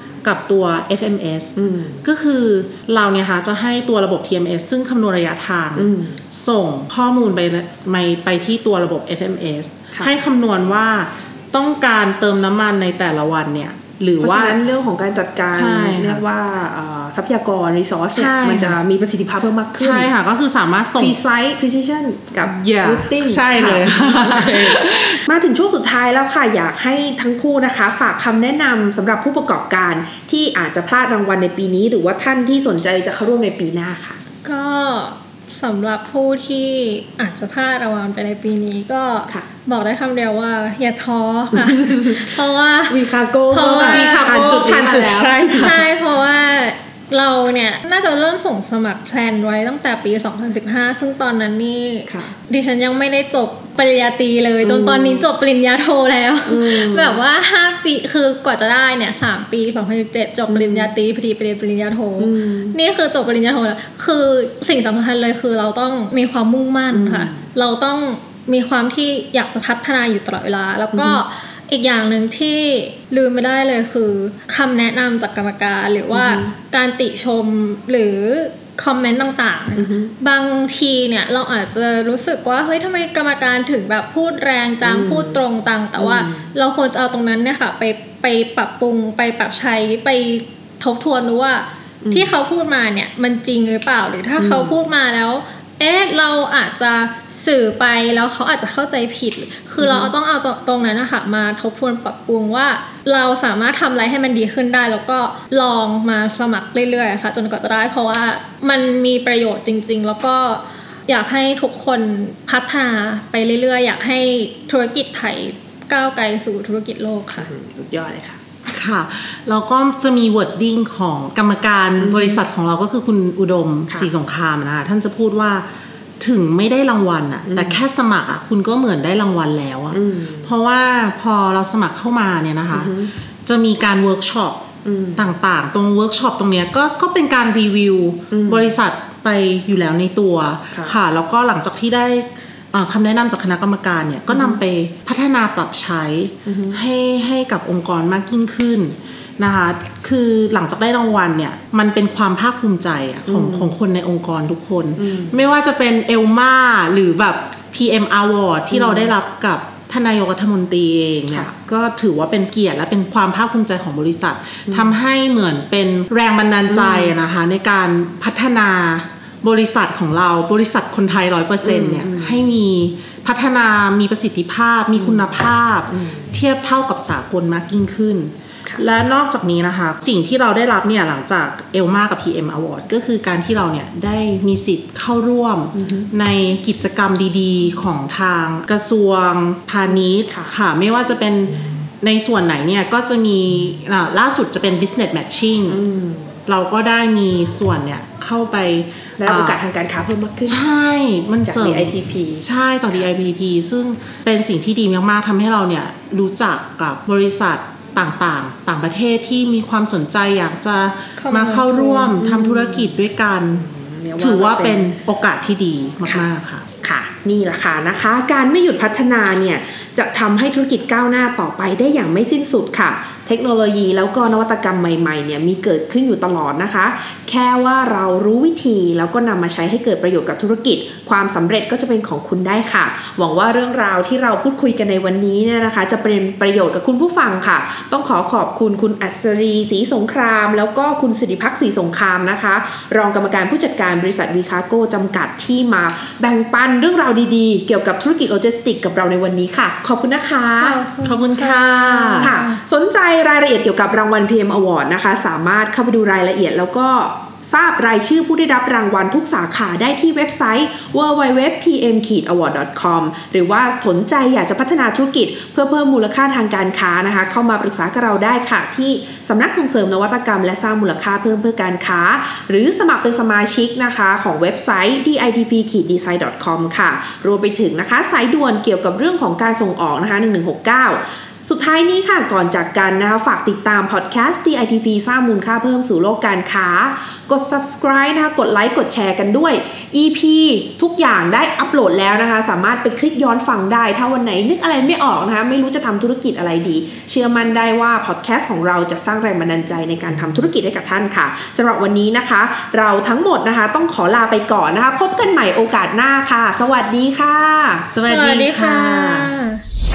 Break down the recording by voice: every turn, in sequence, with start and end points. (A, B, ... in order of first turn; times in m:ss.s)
0:00.2-0:14.6 A
0:01.6-0:02.0 B
0:05.8-0:06.2 B
0:14.2-0:20.1 B
0:15.5-0:16.2 A
0:18.1-0:18.8 A
0:19.8-0:21.2 A
0:21.0-0:34.2 B
0:22.4-0:25.2 A
0:34.4-0:43.0 C
0:41.5-0:42.3 B
0:42.9-0:45.8 B
0:43.5-0:44.3 C
0:43.7-0:45.8 A
0:45.5-1:57.5 C
0:52.1-0:52.3 B
0:54.6-0:55.3 B
0:56.4-0:57.2 B
1:00.5-1:00.9 B
1:02.2-1:02.8 B
1:06.9-1:07.5 B
1:10.9-1:11.2 B
1:16.1-1:16.5 B
1:19.8-1:20.1 B
1:24.8-1:25.4 B
1:26.0-1:26.5 B
1:32.0-1:32.3 B
1:34.4-1:34.8 B
1:39.8-1:40.1 B
1:57.4-1:58.4 B
1:58.7-2:05.6 A
2:02.0-2:02.4 B
2:06.2-2:14.6 A
2:07.5-2:07.8 B
2:09.9-2:10.5 B
2:12.7-2:13.1 B
2:14.8-2:15.3 B
2:15.2-3:15.8 A
2:18.3-2:18.7 B
2:24.3-2:24.6 B
2:26.4-2:26.8 B
2:33.3-2:33.7 B
2:35.0-2:35.4 B
2:38.7-2:39.1 B
2:44.7-2:45.0 B
2:46.7-2:47.2 B
2:51.6-2:52.4 B
2:55.0-2:55.3 B
2:55.9-2:56.3 B
3:05.7-3:06.1 B
3:10.3-3:10.5 B
3:15.7-3:16.4 B
3:16.5-3:19.6 A
3:19.2-3:20.6 B
3:20.4-3:33.6 A
3:21.4-3:22.5 B
3:31.2-3:32.2 C
3:32.2-3:33.0 B
3:33.6-3:34.9 B
3:34.2-3:36.6 A
3:36.8-4:10.8 B
4:10.5-4:12.6 C
4:11.0-4:12.3 A
4:12.2-5:07.9 B
5:07.9-5:09.3 A
5:08.0-5:09.6 C